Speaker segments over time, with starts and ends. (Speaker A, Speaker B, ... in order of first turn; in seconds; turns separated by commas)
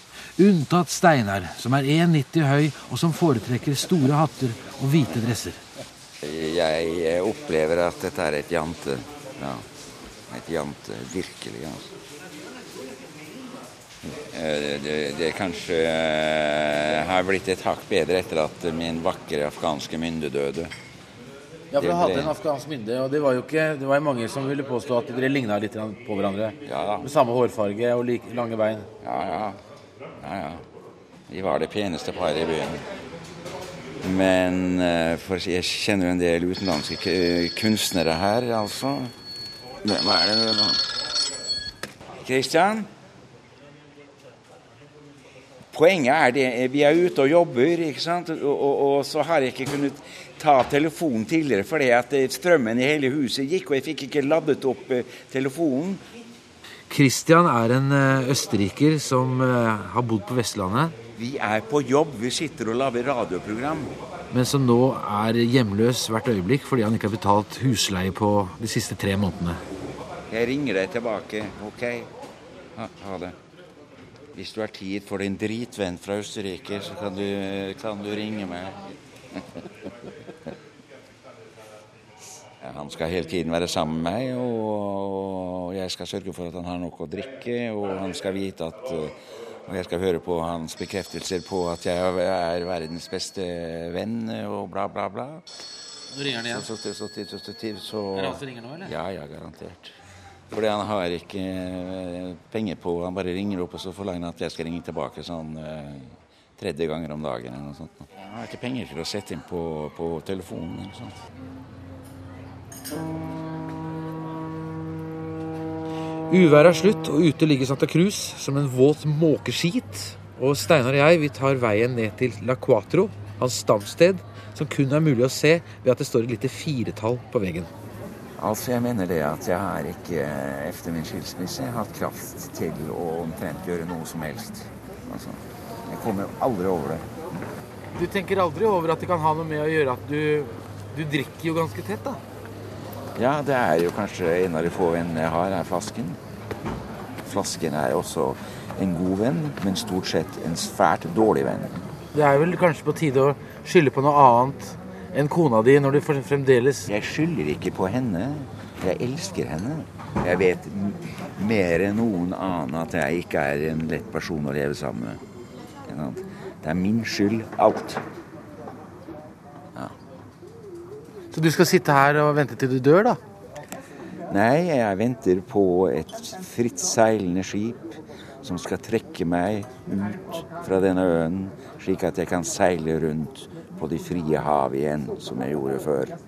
Speaker A: 0.4-5.6, Speaker B: 6.2-9.7, Speaker B: 10.3-11.9, Speaker B: 14.0-20.7, Speaker A: 21.7-28.9, Speaker B: 21.8-22.4, Speaker B: 26.6-27.1, Speaker B: 29.0-29.6, Speaker B: 30.2-30.6, Speaker B: 31.3-32.8, Speaker B: 34.0-39.1, Speaker B: 39.8-40.8, Speaker B: 42.1-42.9, Speaker B: 45.7-56.0, Speaker A: 56.9-60.9, Speaker B: 61.1-63.9, Speaker A: 64.3-69.6, Speaker B: 70.3-72.1, Speaker B: 72.7-73.4, Speaker B: 74.3-78.8, Speaker B: 82.6-95.4, Speaker A: 96.1-96.7, Speaker B: 96.3-100.0, Speaker A: 98.1-98.9, Speaker B: 100.5-111.2, Speaker A: 116.3-127.7, Speaker B: 128.4-137.1, Speaker A: 137.9-142.2, Speaker B: 143.2-146.2, Speaker B: 147.2-151.8, Speaker A: 152.1-156.9, Speaker B: 156.8-165.2, Speaker B: 165.8-168.0, Speaker A: 171.3-173.2, Speaker B: 174.3-186.2